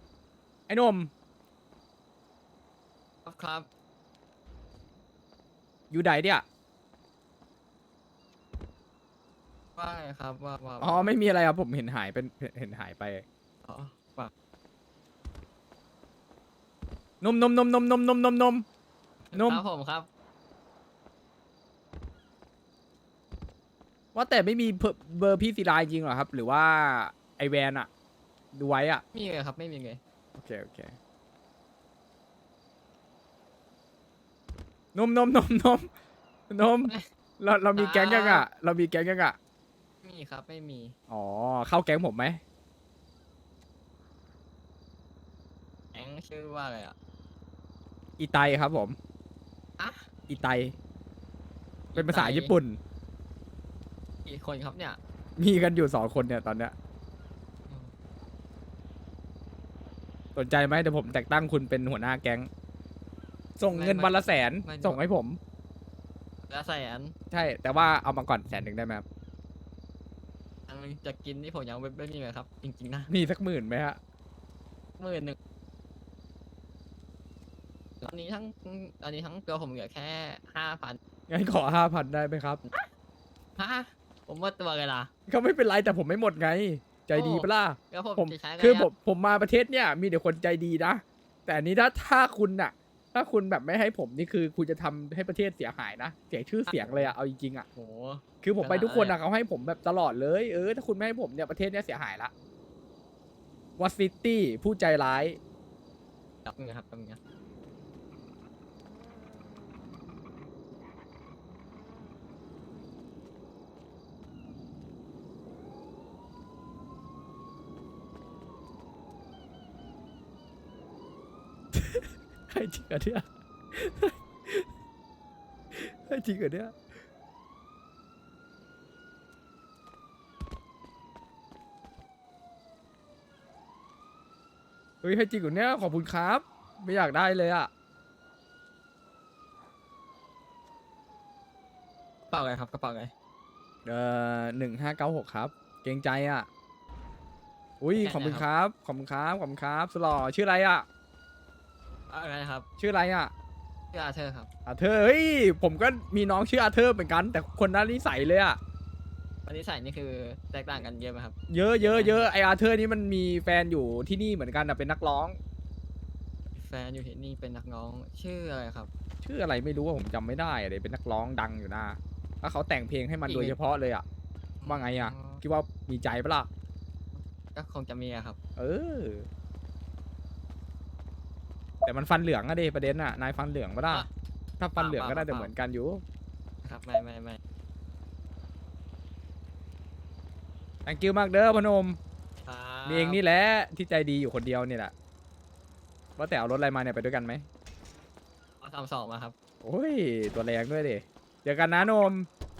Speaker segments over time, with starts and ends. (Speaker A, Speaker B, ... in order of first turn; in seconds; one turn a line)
Speaker A: 0.7-1.1
Speaker B: 3.2-3.7
Speaker A: 5.9-6.4
Speaker B: 9.8-11.1
Speaker A: 10.8-13.2
Speaker B: 13.6-14.3
Speaker A: 17.2-18.6
Speaker B: 19.3-20.1
Speaker A: 19.3-19.6
Speaker A: 24.1-27.9
Speaker A: 28.5-29.0
Speaker B: 29.1-30.0
Speaker A: 30.4-31.0
Speaker A: 34.9-35.9
Speaker A: 36.5-39.4
Speaker B: 37.8-38.5
Speaker B: 40.0-41.0
Speaker A: 41.1-42.4
Speaker B: 45.9-46.9
Speaker A: 48.2-49.0
Speaker B: 49.8-50.1
Speaker A: 50.3-50.7
Speaker B: 51.9-52.5
Speaker A: 51.9-52.8
Speaker B: 54.2-55.0
Speaker A: 55.4-56.7
Speaker A: 60.4-62.5
Speaker A: 63.6-65.4
Speaker B: 63.7-65.0
Speaker B: 66.5-67.1
Speaker A: 67.3-69.0
Speaker B: 70.7-73.1
Speaker A: 73.1-74.0
Speaker B: 75.0-75.4
Speaker B: 78.0-81.0
Speaker A: 81.3-82.6
Speaker B: 83.6-85.1
Speaker A: 85.3-97.7
Speaker B: 87.1-88.9
Speaker B: 96.7-97.1
Speaker B: 97.7-99.2
Speaker A: 98.4-102.3
Speaker A: 103.8-105.4
Speaker B: 106.4-107.2
Speaker A: 121.7-124.7
Speaker A: 125.7-126.8
Speaker A: 135.0-137.7
Speaker B: 142.3-143.1
Speaker A: 143.8-146.5
Speaker A: 147.8-150.8
Speaker B: 147.9-148.4
Speaker B: 152.1-152.7
Speaker A: 152.8-153.3
Speaker B: 153.9-154.5
Speaker A: 154.7-158.6
Speaker B: 159.5-162.2
Speaker A: 161.5-165.4
Speaker B: 166.5-168.9
Speaker A: 169.2-174.0
Speaker B: 173.2-173.6
Speaker B: 174.6-175.4
Speaker A: 174.7-176.5
Speaker B: 177.1-178.4
Speaker A: 178.6-179.3
Speaker A: 181.8-184.1
Speaker A: 184.6-186.0
Speaker B: 184.8-185.5
Speaker B: 186.6-187.4
Speaker A: 190.8-192.0
Speaker B: 192.4-193.2
Speaker A: 192.8-194.9
Speaker A: 196.2-197.4
Speaker B: 198.6-199.3
Speaker A: 199.6-202.3